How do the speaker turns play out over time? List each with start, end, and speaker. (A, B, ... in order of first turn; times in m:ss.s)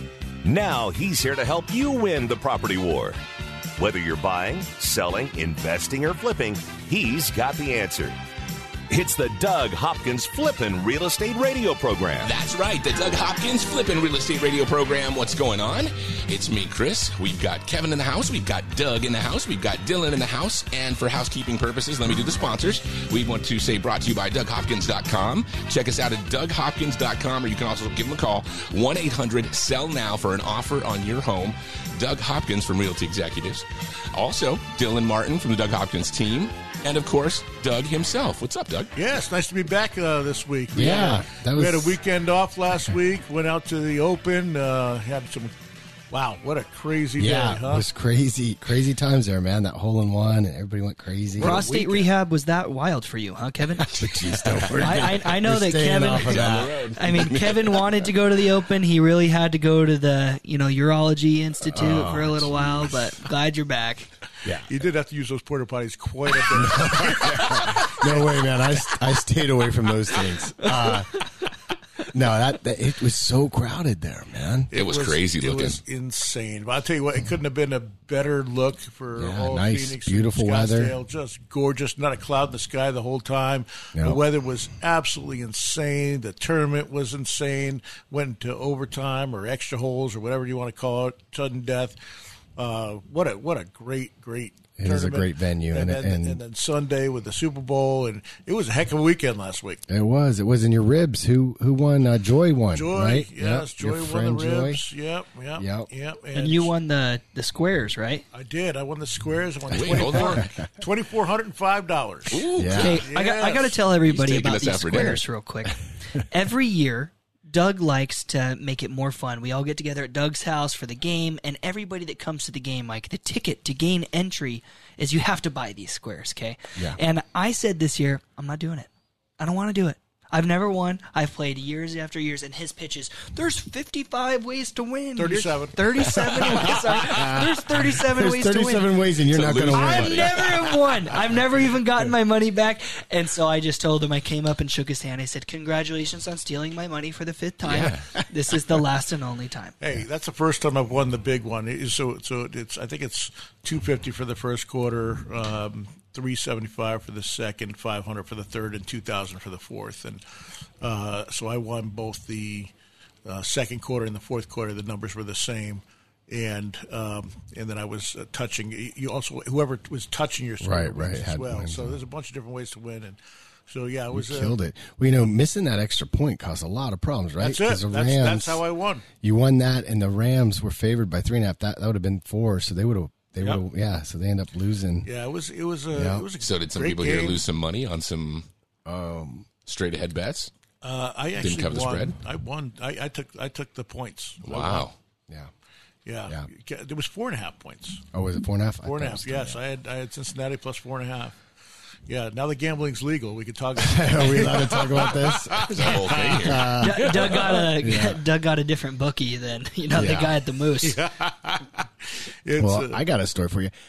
0:00.4-0:03.2 A
0:03.8-0:08.2 A
0:08.9-0:12.3 A
0:12.2-0:38.9 B
0:38.9-0:45.5 C
0:40.7-0:42.0 D
0:46.1-0:47.8 C
0:47.2-0:51.6 D
0:51.4-0:52.1 C
0:51.4-0:54.1 E
0:53.9-0:56.8 D
0:54.2-0:54.8 B
0:54.7-1:04.1 E
0:56.1-0:58.0 B
1:01.7-1:02.9 D
1:04.7-1:08.4 C
1:06.5-1:11.2 D
1:12.1-1:14.7 D
1:14.7-1:32.0 C
1:14.7-1:15.8 B
1:19.1-1:21.0 D
1:23.9-1:24.2 D
1:32.6-1:39.8 C
1:34.8-1:36.4 D
1:39.9-1:44.8 D
1:42.7-1:46.7 C
1:45.6-1:45.9 D
1:46.3-1:48.2 E
1:48.3-1:53.8 C
1:49.7-1:50.4 B
1:49.8-1:50.5 D
1:52.3-1:53.1 B
1:52.5-1:53.1 D
1:52.7-2:18.9 E
1:54.0-1:55.2 B
2:15.2-2:16.1 C
2:16.4-2:20.4 D
2:19.3-2:21.0 B
2:19.7-2:29.8 E
2:27.6-2:28.0 B
2:29.8-2:40.2 C
2:40.8-2:42.7 C
2:43.2-2:54.6 C
2:50.6-2:52.0 D
2:54.1-2:58.6 D
2:57.4-2:59.1 C
2:59.2-3:05.1 D
3:05.0-3:07.4 C
3:05.9-3:06.3 D
3:06.4-3:08.5 B
3:08.8-3:09.5 D
3:09.6-3:10.5 B
3:10.8-3:14.9 C
3:11.4-3:12.1 B
3:14.4-3:14.9 B
3:16.0-3:18.0 C
3:18.1-3:19.6 D
3:18.8-3:21.4 C
3:22.1-3:27.6 C
3:23.8-3:27.1 D
3:25.6-3:27.5 B
3:26.8-3:31.0 E
3:27.8-3:28.2 D
3:29.9-3:30.3 D
3:30.8-3:33.0 C
3:32.6-3:33.7 D